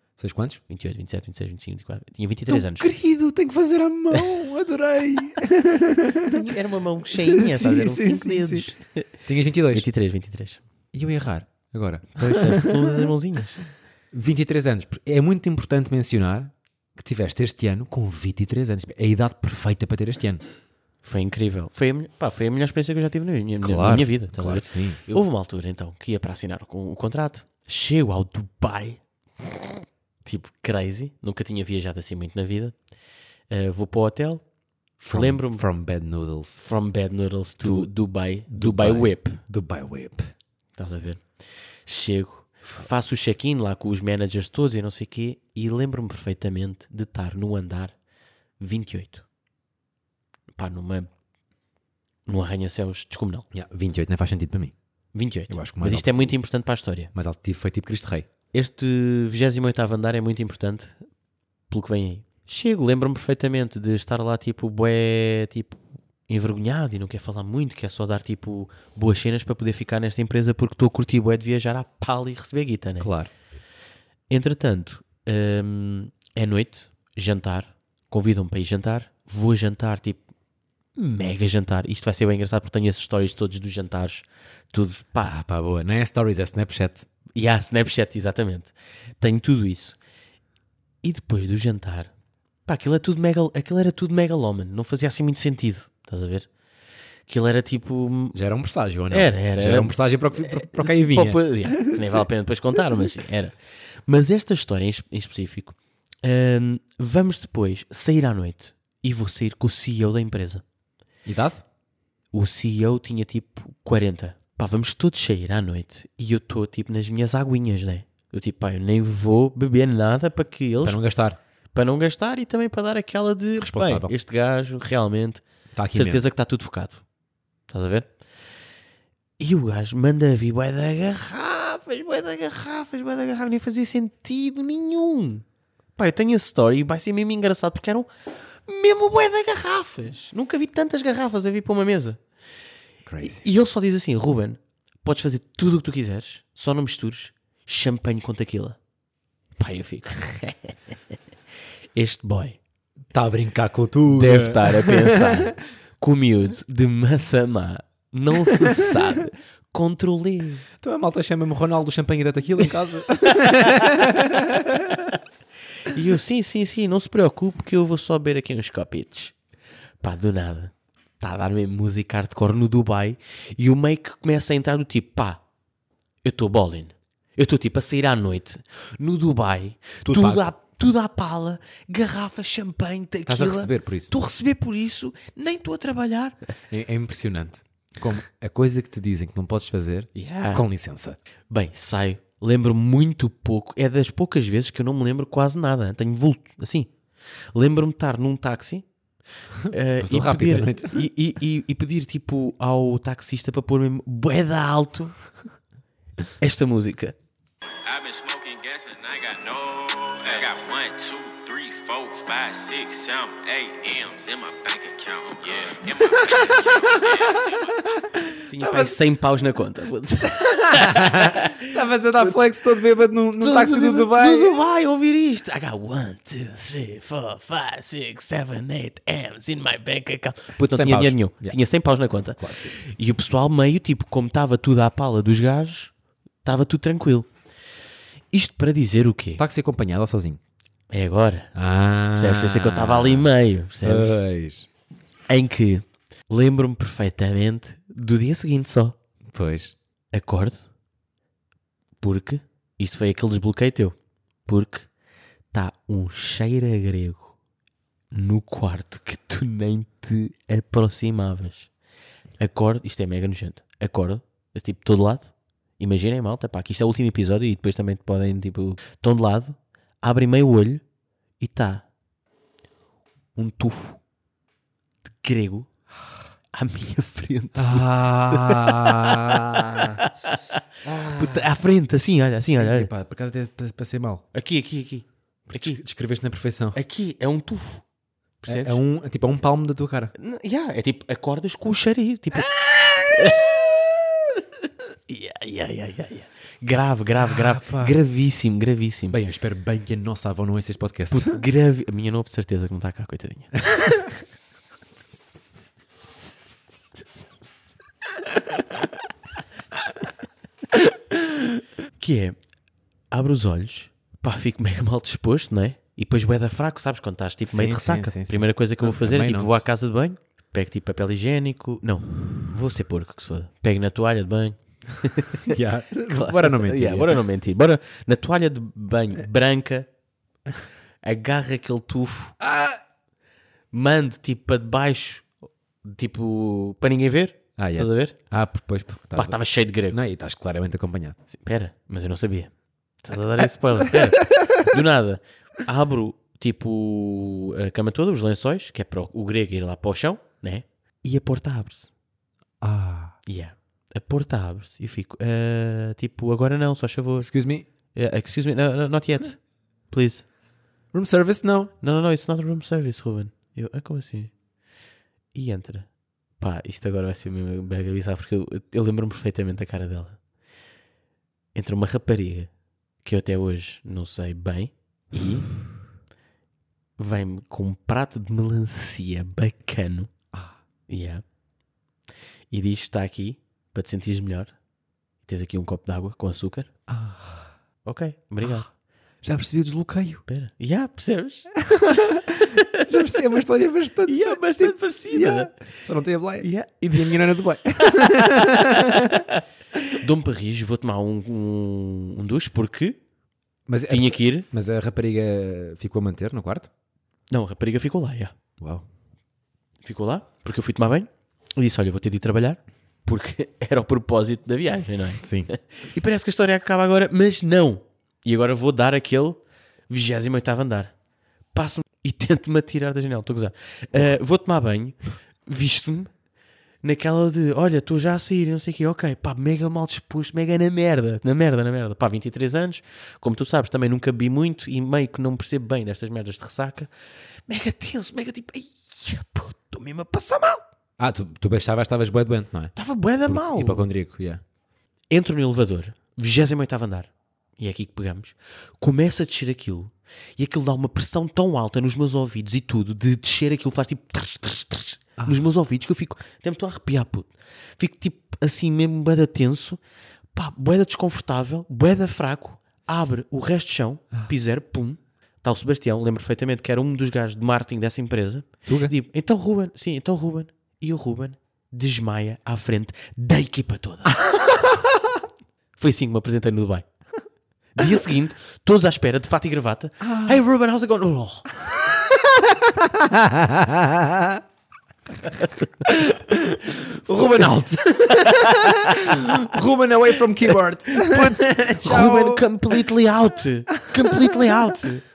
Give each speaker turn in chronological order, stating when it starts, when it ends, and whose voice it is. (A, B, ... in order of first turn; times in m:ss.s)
0:00.2-0:00.6 A
0:00.7-0:02.9 B
0:02.5-0:06.5 A
0:06.2-0:09.1 B
0:07.1-0:08.7 A
0:09.3-0:09.9 A
0:09.7-0:10.6 B
0:10.9-0:13.1 A
0:12.2-0:13.7 B
0:14.1-0:20.4 A
0:21.0-0:32.8 B
0:23.6-0:25.0 A
0:33.5-0:34.4 B
0:35.0-0:36.6 A
0:35.1-0:35.6 B
0:36.6-0:39.4 B
0:37.6-0:37.9 A
0:38.5-0:40.3 A
0:40.8-0:41.2 B
0:41.9-0:47.9 B
0:48.6-0:49.2 B
0:50.6-0:51.1 B
0:52.3-0:53.5 B
0:53.5-0:54.7 A
0:55.1-0:57.1 B
0:55.5-0:56.4 A
0:57.1-0:58.3 A
0:58.5-1:01.0 B
1:01.7-1:13.1 B
1:13.0-1:13.3 A
1:14.3-1:20.2 B
1:21.0-1:25.3 B
1:25.2-1:27.1 A
1:27.4-1:30.0 B
1:31.0-1:32.1 B
1:32.7-1:36.5 B
1:37.3-1:38.4 B
1:38.3-1:43.1 A
1:39.1-1:43.6 B
1:44.1-1:50.6 B
1:51.2-1:51.6 A
1:52.3-2:01.0 B
2:00.8-2:01.4 A
2:01.7-2:07.0 B
2:03.6-2:04.1 A
2:05.8-2:06.2 A
2:07.7-2:08.1 B
2:09.4-2:15.4 B
2:16.0-2:18.1 B
2:18.7-2:22.2 B
2:23.1-2:23.5 A
2:23.2-2:28.8 B
2:29.6-2:30.8 B
2:32.0-2:32.6 B
2:33.1-2:35.5 A
2:34.1-2:40.6 B
2:38.4-2:38.9 A
2:40.8-2:45.2 A
2:43.6-2:43.9 B
2:45.8-2:49.4 B
2:50.0-2:55.4 B
2:56.2-3:06.4 B
3:00.0-3:00.5 A
3:03.3-3:04.1 A
3:06.7-3:11.2 A
3:10.2-3:10.6 B
3:11.5-3:16.9 B
3:17.5-3:18.9 B
3:19.7-3:21.0 A
3:19.7-3:25.1 B
3:26.4-3:27.2 B
3:27.9-3:35.8 C
3:30.2-3:31.0 B
3:33.6-3:34.5 B
3:35.0-3:37.0 B
3:35.8-3:39.0 A
3:38.4-3:41.8 B
3:40.4-3:44.6 A
3:43.4-3:55.9 B
3:50.6-3:51.6 A
3:52.4-3:52.8 A
3:56.4-3:57.3 B
3:58.3-3:59.4 B
3:59.4-4:00.4 A
4:00.9-4:01.5 B
4:01.6-4:03.3 A
4:02.2-4:04.1 B
4:03.8-4:04.7 A
4:05.3-4:09.0 B
4:09.3-4:09.8 A
4:10.1-4:10.6 B
4:12.0-4:14.0 B
4:14.5-4:14.9 B
4:15.5-4:17.4 B
4:18.1-4:21.7 B
4:22.4-4:30.8 B
4:31.4-4:31.9 B
4:33.4-4:34.0 B
4:35.2-4:35.7 B
4:36.5-4:42.9 B
4:37.6-4:40.1 A
4:40.8-4:41.5 A
4:42.6-4:44.2 A
4:44.3-4:45.8 B
4:45.5-4:46.8 A
4:46.7-4:47.8 B
4:48.4-4:48.8 B
4:48.5-4:50.1 A
4:50.2-4:53.7 B
4:52.6-4:53.5 A
4:55.1-4:59.2 B
4:57.2-4:58.0 A
4:59.1-5:01.4 A
5:01.1-5:03.6 B
5:03.7-5:04.2 A
5:12.0-5:12.4 B
5:13.1-5:29.9 B
5:17.4-5:19.6 A
5:25.4-5:27.2 A
5:31.0-5:32.4 B
5:32.4-5:32.8 A
5:33.7-5:35.3 B
5:35.8-5:38.2 B
5:37.6-5:39.4 A
5:39.2-5:40.0 B
5:39.9-5:41.2 A
5:41.3-5:51.9 B
5:43.9-5:44.5 A
5:52.6-5:53.2 A
5:53.3-5:57.3 B
5:57.2-5:57.7 A
5:57.9-5:59.4 B
5:59.9-6:00.3 B
6:00.9-6:01.7 A
6:01.8-6:04.3 B
6:05.3-6:05.9 B
6:06.4-6:10.2 B
6:11.6-6:12.5 B
6:13.0-6:15.5 B
6:17.0-6:20.1 B
6:20.9-6:21.2 B
6:22.5-6:24.5 B
6:25.2-6:26.7 B
6:26.9-6:27.5 A
6:27.8-6:28.7 B
6:29.2-6:30.2 A
6:30.3-6:31.7 B
6:31.6-6:39.2 A
6:32.5-6:32.9 B
6:34.1-6:35.6 B
6:36.4-6:37.1 B
6:38.0-6:43.0 B
6:43.7-6:46.7 A
6:43.9-6:44.5 B
6:47.3-6:48.3 B
6:48.6-6:48.8 A
6:49.8-7:00.9 B
6:55.2-6:55.5 A
7:01.5-7:06.1 B
7:06.8-7:16.9 B
7:17.5-7:20.6 B
7:21.0-7:22.7 A
7:22.8-7:23.8 B
7:23.2-7:24.4 A
7:25.1-7:39.8 B
7:40.4-7:54.4 B
7:48.7-7:48.9 A
7:55.8-7:56.9 B
7:57.8-8:01.5 B
8:00.0-8:00.4 A
8:01.8-8:04.4 A
8:05.8-8:12.8 A
8:07.2-8:07.5 B
8:08.1-8:09.4 B
8:11.0-8:15.0 B
8:13.7-8:14.9 A